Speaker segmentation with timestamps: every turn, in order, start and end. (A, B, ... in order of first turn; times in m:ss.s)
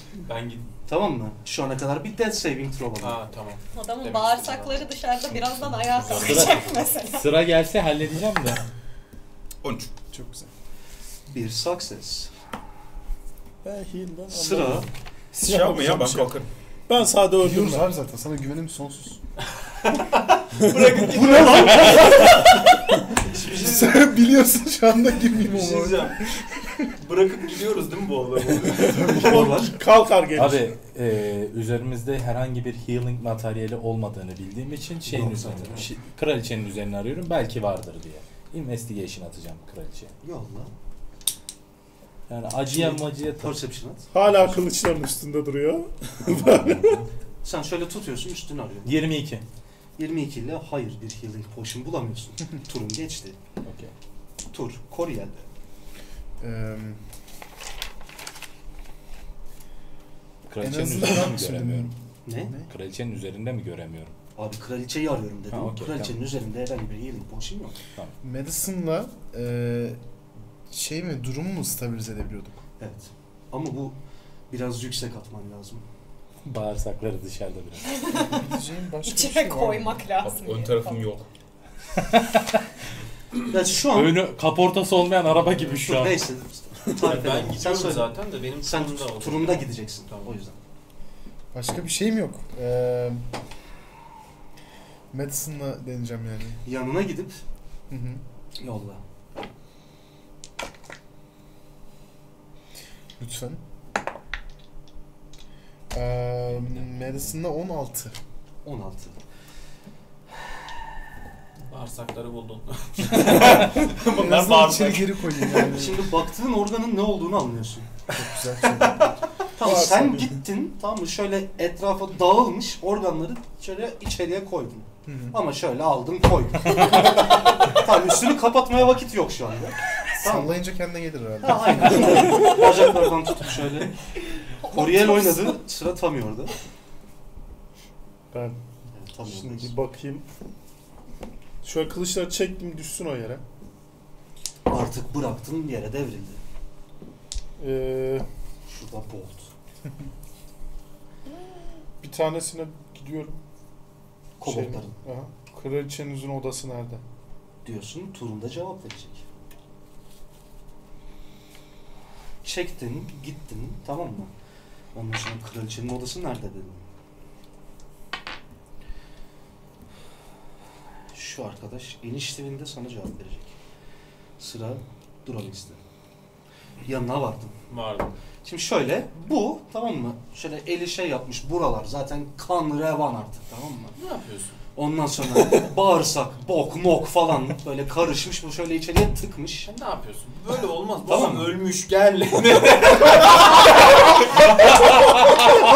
0:00.2-0:00.7 A
0:00.9-0:03.2 B
0:03.0-0:04.9 A
0:03.7-0:07.3 C
0:05.8-0:06.9 D
0:06.2-0:08.6 E
0:09.6-0:10.0 D
0:10.1-0:10.5 F
0:11.3-0:12.3 B
0:13.6-0:16.4 G
0:14.3-0:14.9 B
0:15.3-0:16.5 D
0:16.9-0:17.9 G
0:17.4-0:19.2 F
0:20.1-0:22.5 A
0:21.0-0:22.5 B
0:22.2-0:22.4 F
0:23.2-0:24.0 A
0:23.4-0:26.9 F
0:25.3-0:26.3 A
0:26.9-0:29.1 A
0:28.8-0:30.7 G
0:29.0-0:29.8 B
0:29.0-0:29.5 F
0:30.3-0:40.1 E
0:35.1-0:35.9 B
0:40.2-0:40.7 B
0:42.3-0:43.6 E
0:42.6-0:44.1 B
0:44.1-0:47.0 G
0:46.3-0:47.0 E
0:47.4-0:49.0 B
0:48.8-0:49.4 E
0:50.0-0:53.4 B
0:53.6-0:53.9 E
0:54.5-0:55.5 B
0:56.4-0:57.1 F
1:00.5-1:01.9 E
1:00.6-1:02.7 F
1:02.3-1:02.5 B
1:02.6-1:04.2 E
1:04.4-1:07.8 B
1:05.5-1:06.2 E
1:08.2-1:10.0 F
1:10.7-1:12.6 F
1:12.8-1:14.0 B
1:14.5-1:15.8 B
1:16.4-1:18.0 E
1:17.9-1:18.4 C
1:18.2-1:20.1 F
1:19.0-1:21.1 C
1:20.2-1:21.3 D
1:22.0-1:22.6 E
1:23.5-1:24.2 B
1:23.8-1:26.3 E
1:25.6-1:30.6 B
1:27.0-1:30.4 A
1:31.5-1:33.3 F
1:35.1-1:36.6 F
1:36.6-1:37.4 B
1:37.9-1:38.2 F
1:38.6-1:39.0 B
1:43.2-1:43.6 F
1:45.9-1:48.2 F
1:48.6-1:49.2 B
1:51.7-1:55.8 A
1:53.2-1:56.2 F
1:55.7-1:57.9 B
1:58.1-1:59.0 F
1:59.5-2:10.6 B
1:59.6-2:00.4 G
2:05.1-2:05.4 F
2:10.2-2:12.5 F
2:11.4-2:13.9 B
2:14.5-2:15.6 C
2:14.6-2:16.5 B
2:18.3-2:18.6 G
2:19.0-2:19.7 B
2:19.4-2:20.2 G
2:21.6-2:23.4 G
2:24.7-2:26.4 B
2:27.6-2:28.2 G
2:28.7-2:29.5 B
2:32.0-2:33.4 G
2:34.4-2:34.9 B
2:34.4-2:37.0 G
2:37.6-2:39.2 B
2:42.4-2:44.3 B
2:44.9-2:46.9 B
2:51.1-2:53.6 B
2:54.4-2:55.8 B
2:56.8-2:57.6 B
2:57.7-2:58.2 A
2:58.4-3:04.0 B
3:04.0-3:04.6 A
3:04.8-3:09.7 B
3:09.7-3:15.5 A
3:11.1-3:11.6 B